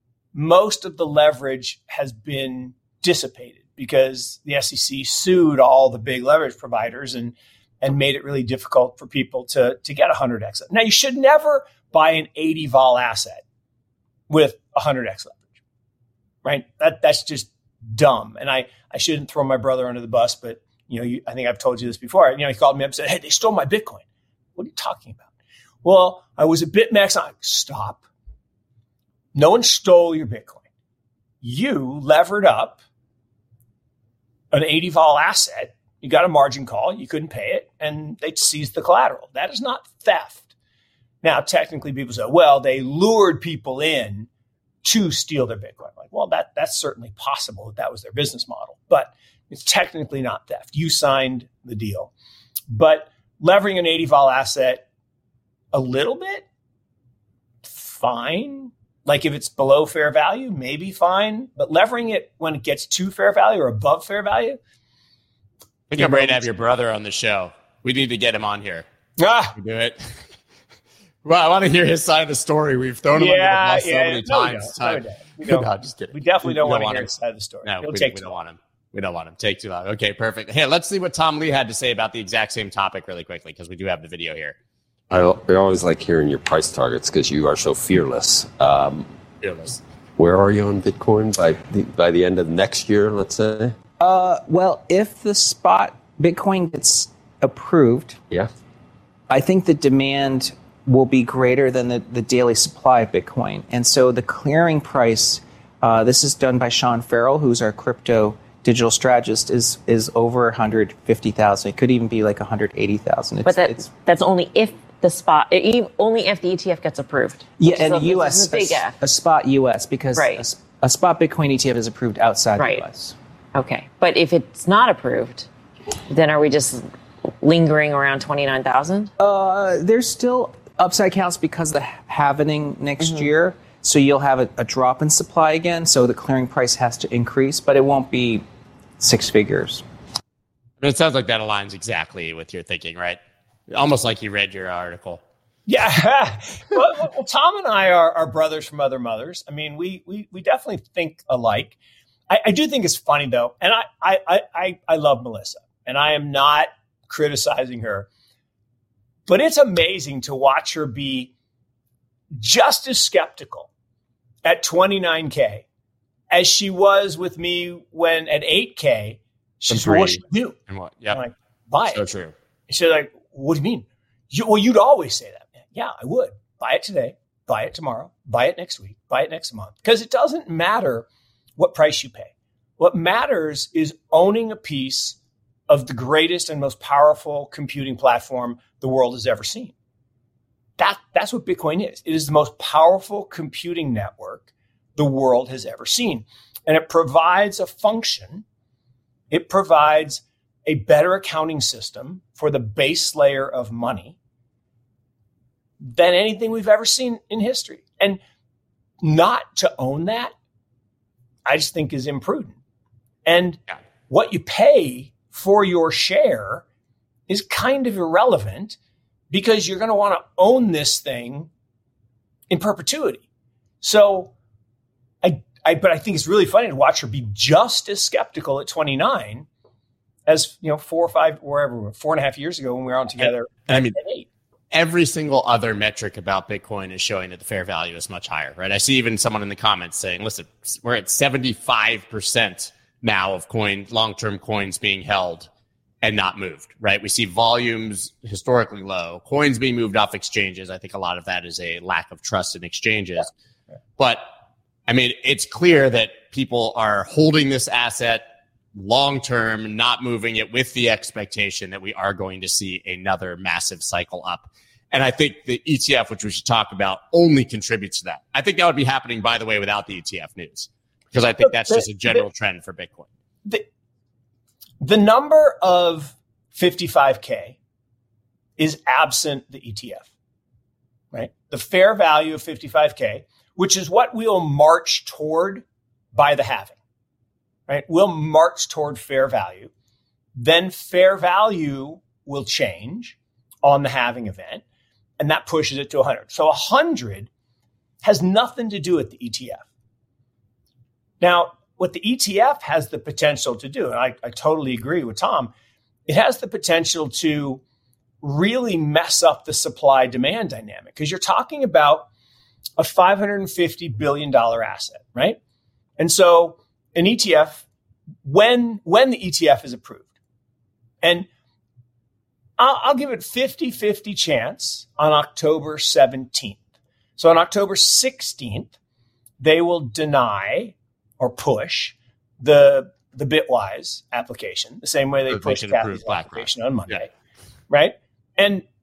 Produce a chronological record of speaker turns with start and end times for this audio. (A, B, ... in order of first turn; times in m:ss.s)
0:00.3-0:13.4 A
0:14.3-0:15.6 A
0:16.4-0:24.0 A
0:24.6-0:25.3 A
0:25.8-0:28.0 A
0:29.3-0:30.6 A
0:31.4-0:32.8 A
0:34.5-0:40.5 A
0:41.2-0:44.3 A
0:44.8-0:52.1 A
0:52.7-0:54.8 A
0:55.7-0:56.4 A
0:57.6-1:04.6 A
1:05.9-1:08.8 B
1:06.0-1:06.5 A
1:09.2-1:09.6 A
1:09.5-1:10.2 B
1:11.2-1:17.1 B
1:13.1-1:18.3 A
1:17.6-1:24.6 B
1:25.1-1:29.1 C
1:29.4-1:29.8 B
1:30.2-1:33.7 C
1:34.0-1:38.2 D
1:39.3-1:53.9 D
1:53.4-1:59.0 E
1:57.6-2:03.1 D
2:00.1-2:00.4 E
2:02.6-2:02.8 E
2:03.5-2:05.5 E
2:06.1-2:06.8 E
2:07.4-2:09.1 E
2:09.2-2:18.4 D
2:19.0-2:19.8 D
2:20.8-2:25.2 B
2:25.6-2:31.8 A
2:32.3-2:38.1 A
2:39.3-2:41.3 A
2:42.3-2:43.7 A
2:44.4-2:45.6 A
2:46.3-2:50.6 A
2:49.7-2:51.2 B
2:51.1-2:52.0 A
2:51.8-2:52.3 B
2:52.7-3:05.2 A
3:05.7-3:09.7 A
3:10.8-3:18.4 A
3:19.3-3:24.2 A
3:25.8-3:28.2 A
3:29.0-3:30.3 A
3:31.4-3:32.6 A
3:33.2-3:36.6 A
3:37.3-3:38.8 A
3:39.3-3:41.5 A
3:42.5-3:43.2 A
3:43.8-3:44.3 A
3:45.2-3:49.5 A
3:50.2-3:54.3 A
3:53.2-3:54.0 B
3:54.7-4:05.5 B
4:06.0-4:13.3 B
4:14.0-4:14.3 B
4:14.9-4:33.1 B
4:31.4-4:32.2 A
4:34.8-4:37.6 A
4:38.6-4:40.1 A
4:41.1-4:46.8 A
4:47.7-4:49.7 A
4:50.3-4:54.6 A
4:55.2-4:57.3 A
4:58.0-4:59.7 A
5:01.2-5:05.5 A
5:06.1-5:07.6 A
5:08.2-5:12.1 A
5:12.8-5:15.4 A
5:16.0-5:17.6 A
5:18.2-5:20.1 A
5:21.0-5:21.3 A
5:22.6-5:26.6 A
5:27.2-5:28.7 A
5:29.4-5:37.1 A
5:35.3-5:37.0 B
5:37.7-5:38.6 A